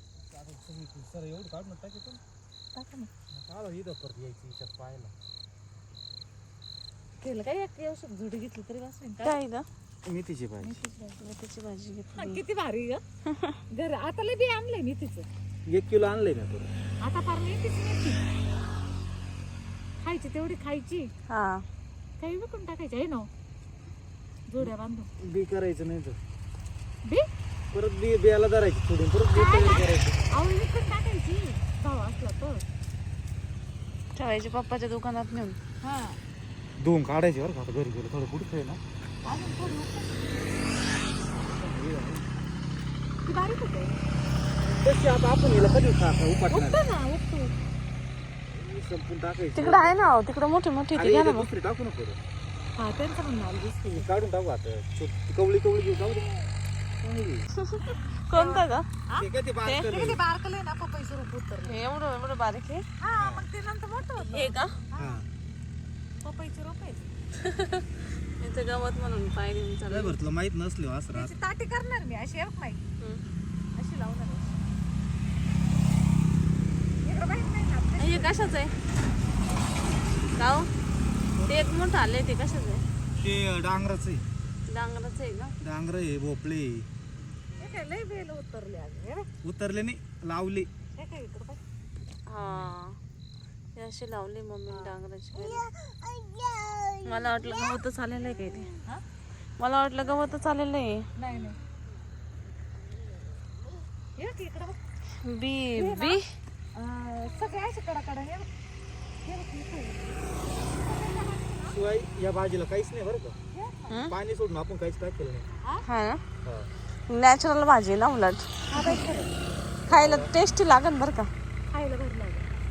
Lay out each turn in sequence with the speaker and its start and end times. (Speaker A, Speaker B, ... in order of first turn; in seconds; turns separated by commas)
Speaker A: 0.3-2.2, Speaker B: 2.7-3.1, Speaker A: 3.3-5.1, Speaker B: 7.2-9.4, Speaker C: 9.2-9.7, Speaker A: 10.0-10.8, Speaker B: 10.6-11.2, Speaker C: 11.2-12.4, Speaker B: 12.1-13.0, Speaker B: 13.7-15.3, Speaker A: 15.7-16.7, Speaker B: 17.0-18.2, Speaker B: 20.0-21.1, Speaker C: 21.3-21.6, Speaker B: 22.2-23.3, Speaker B: 24.5-25.1, Speaker A: 24.6-26.2, Speaker A: 27.7-30.2, Speaker B: 29.3-32.6, Speaker C: 34.1-35.6, Speaker B: 35.8-36.2, Speaker A: 36.8-38.8, Speaker B: 39.2-40.3, Speaker A: 41.4-42.2, Speaker B: 43.2-44.0, Speaker A: 44.6-46.8, Speaker B: 46.5-47.5, Speaker A: 48.5-50.0, Speaker C: 49.5-51.5, Speaker A: 50.9-52.2, Speaker B: 52.8-54.1, Speaker A: 53.9-56.3, Speaker A: 57.0-57.5, Speaker C: 57.6-58.9, Speaker B: 58.3-59.3, Speaker A: 59.2-60.2, Speaker C: 59.6-60.0, Speaker B: 59.9-61.8, Speaker C: 61.6-62.8, Speaker B: 63.0-65.2, Speaker A: 63.1-63.5, Speaker C: 64.2-64.8, Speaker A: 65.0-65.3, Speaker B: 66.2-67.1, Speaker C: 67.4-67.8, Speaker C: 68.4-70.2, Speaker A: 69.9-71.3, Speaker B: 71.1-72.8, Speaker B: 73.7-74.6, Speaker B: 77.0-78.6, Speaker C: 78.0-78.7, Speaker C: 80.4-80.7, Speaker A: 81.3-81.8, Speaker C: 81.5-82.8, Speaker A: 83.2-84.2, Speaker C: 84.7-85.6, Speaker A: 85.6-86.9, Speaker B: 87.6-89.3, Speaker A: 89.4-90.7, Speaker B: 90.9-91.6, Speaker C: 92.3-93.0, Speaker A: 92.4-92.7, Speaker C: 93.8-95.7, Speaker B: 94.7-95.0, Speaker C: 97.0-98.7, Speaker C: 99.6-101.0, Speaker B: 101.2-101.6, Speaker B: 104.2-104.8, Speaker C: 105.2-106.2, Speaker B: 105.8-106.2, Speaker B: 106.7-108.5, Speaker B: 109.2-111.8, Speaker A: 111.7-113.4, Speaker B: 113.5-114.1, Speaker A: 114.1-115.5, Speaker B: 115.5-115.8, Speaker C: 115.8-116.2, Speaker A: 116.4-116.7, Speaker C: 117.1-119.0, Speaker B: 118.7-119.3, Speaker A: 119.9-120.3, Speaker C: 119.9-121.3, Speaker B: 121.7-122.5